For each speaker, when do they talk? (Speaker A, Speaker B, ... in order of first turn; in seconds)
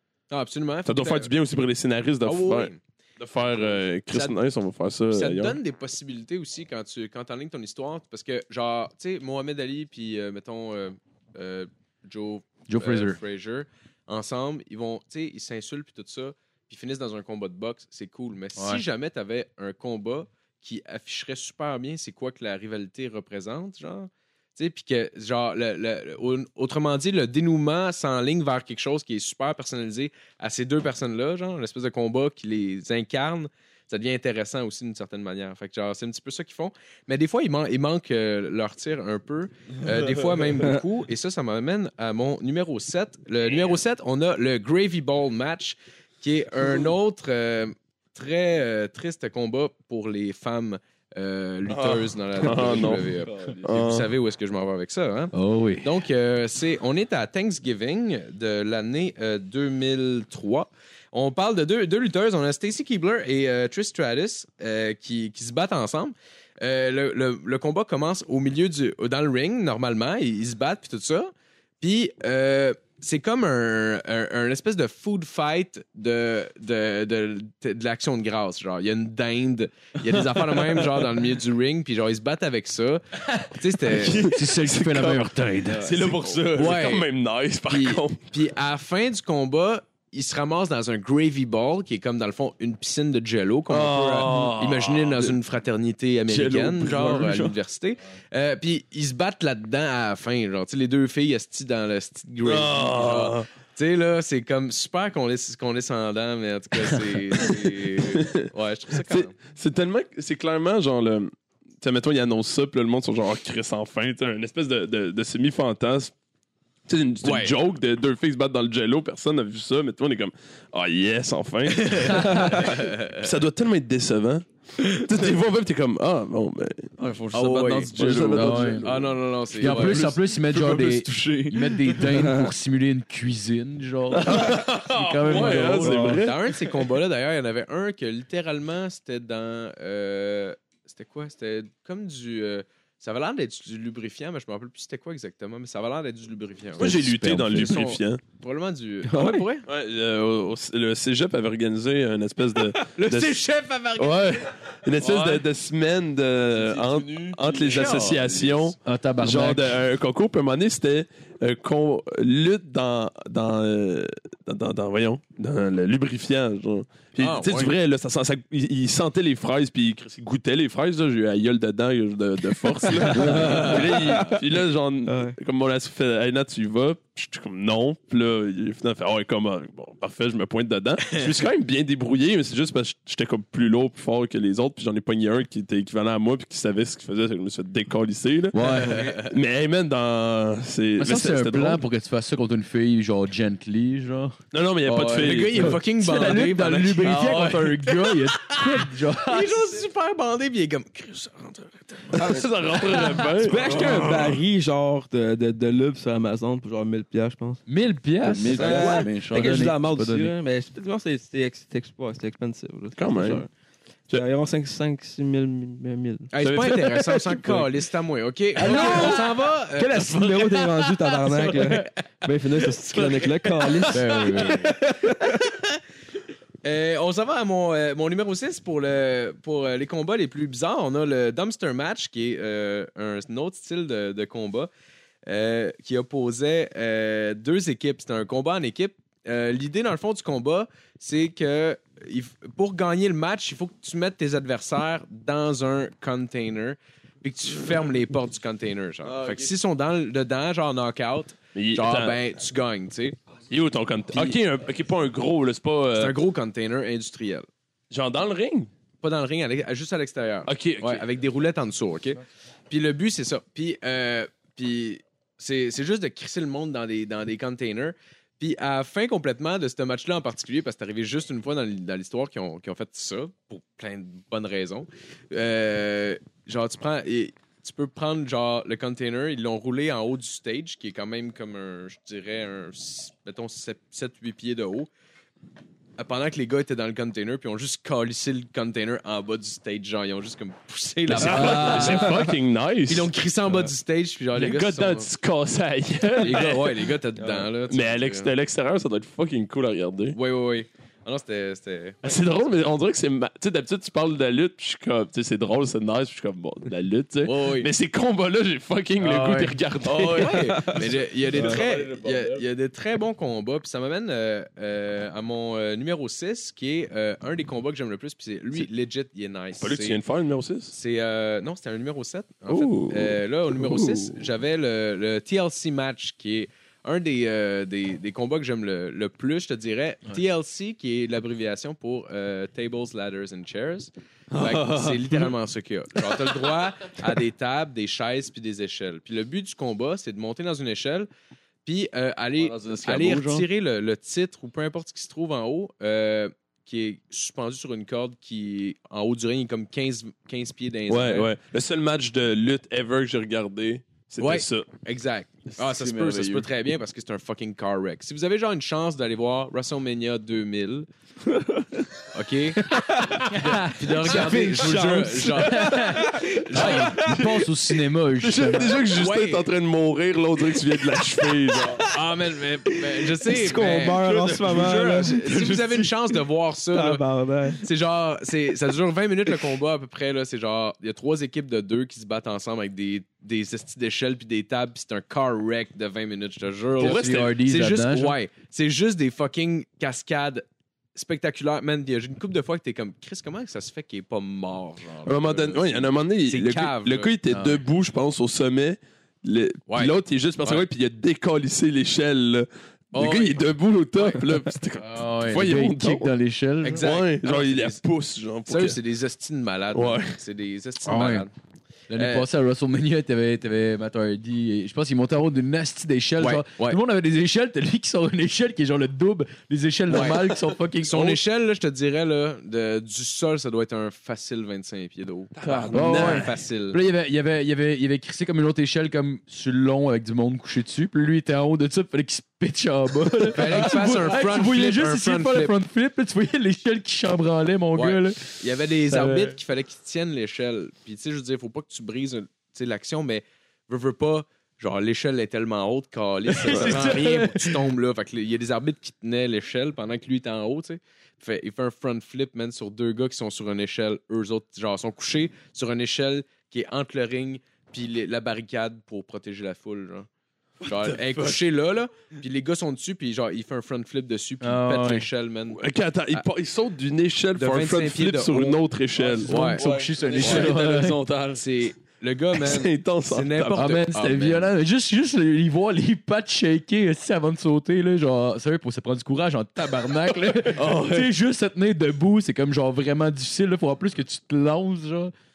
Speaker A: 0.3-1.3, 2.2-2.8, 3.4-4.3, 5.1-84.3, 86.3-87.1, 87.7-109.4, 117.2-117.5, 121.9-123.3, 127.3-127.9, 128.8-130.2, 135.4-149.7, 152.8-154.6, 157.7-158.7, 167.2-167.7, 173.1-174.3, 188.6-189.3, 195.1-203.8, 216.3-221.9, 222.9-224.6, 225.3-225.8, 226.6-234.7, 235.2-253.2, 254.1-254.4, 255.9-257.4, 259.0-284.9, 286.0-292.3, 292.9-295.1, 296.1-298.3, 300.1-302.1, 307.2-307.7, 309.9-320.0, 320.7-341.1, 341.6-351.3, 354.2-360.9, 362.1-367.1, 368.7-369.4, 371.9-377.0, 377.5-397.1, 399.7-400.6, 402.9-404.3, 406.6-407.8, 408.4-411.3, 411.9-412.3, 416.2-416.8, 419.9-420.2, 420.8-426.8, 433.3-435.5, 437.7-460.1, 460.6-465.6, 467.4-468.6, 469.2-469.6, 470.2-470.5, 471.3-474.4
Speaker B: 0.8-5.6, 51.7-53.1, 53.6-54.1, 80.1-81.0, 83.9-88.2, 93.7-95.3, 96.3-97.5, 102.4-103.5, 108.0-108.4, 109.0-116.1, 116.9-126.9, 127.9-128.9, 129.8-130.1, 134.1-136.6, 146.8-148.2, 149.7-153.4, 154.0-191.8, 194.5-195.8, 197.2-197.5, 202.1-204.4, 212.9-213.4, 251.5-252.2, 253.5-256.1, 257.9-258.7, 260.5-261.0, 291.1-293.1, 294.3-296.9, 297.7-300.2, 302.0-311.8, 319.6-320.7, 322.5-324.2, 350.9-354.7, 368.2-371.9, 386.8-387.4, 395.1-406.1, 406.8-408.8, 409.7-410.1, 419.9-420.4, 425.4-426.3, 446.5-446.9, 460.9-461.3, 465.5-469.6, 472.3-473.8
Speaker C: 12.7-13.2, 18.6-18.8, 55.3-55.9, 84.2-86.1, 122.0-122.4, 128.2-128.9, 129.6-136.1, 146.8-147.8, 158.8-159.7, 188.5-189.1, 191.0-199.8, 207.7-210.3, 223.9-224.7, 291.3-292.0, 309.0-309.6, 363.3-364.4, 365.5-368.7, 386.8-388.2, 397.3-397.6, 404.8-406.8, 410.9-411.3, 411.9-421.2, 425.5-438.4, 438.9-439.4, 446.3-447.7, 464.4-465.1, 469.2-471.0, 473.5-485.1
Speaker D: 53.1-53.6, 96.4-97.5, 127.0-129.1, 129.6-132.2, 155.0-155.4, 156.5-158.6, 173.2-173.8, 197.1-197.6, 208.2-209.6, 249.0-249.5, 311.4-312.4, 334.3-335.0, 342.4-343.5, 355.5-356.5, 374.3-375.7, 469.0-471.4, 480.5-481.1
Speaker E: 132.1-132.5, 135.8-136.1, 149.0-149.4, 173.9-174.3, 175.1-175.3, 203.3-207.6, 208.4-213.5, 214.1-217.5, 218.6-225.5, 361.3-361.8, 362.6-363.3, 364.0-367.5, 371.2-371.9, 372.9-375.4, 376.7-377.6